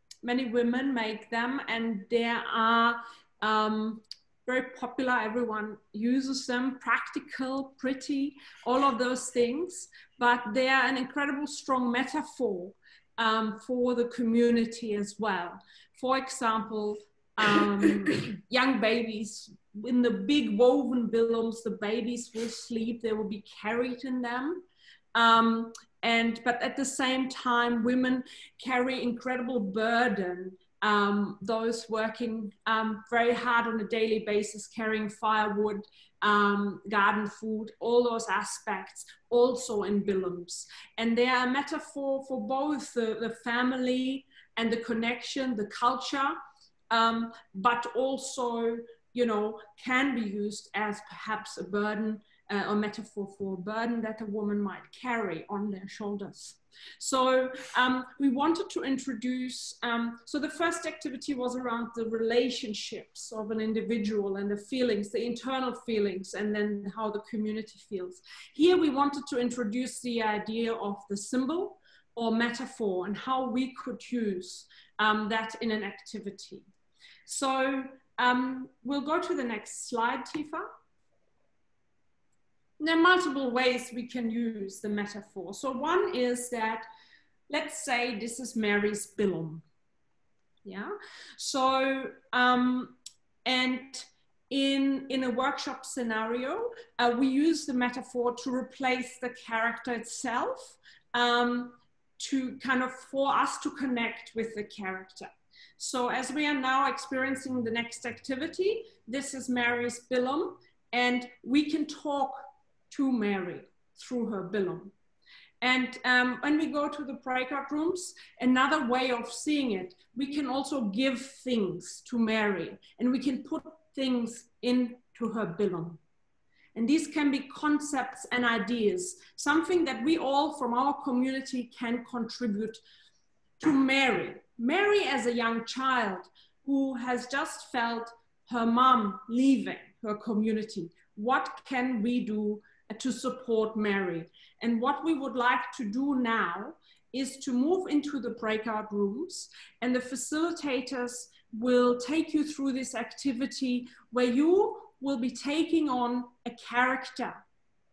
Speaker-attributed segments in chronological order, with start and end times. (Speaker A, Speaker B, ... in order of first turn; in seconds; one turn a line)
Speaker A: 0.2-46.4
Speaker A: 46.9-76.7
Speaker A: 77.3-80.7
Speaker A: 82.8-86.9
Speaker A: 87.5-89.6
Speaker A: 90.7-114.9
Speaker A: 115.6-126.0
Speaker A: 126.8-132.8
Speaker A: 133.6-157.4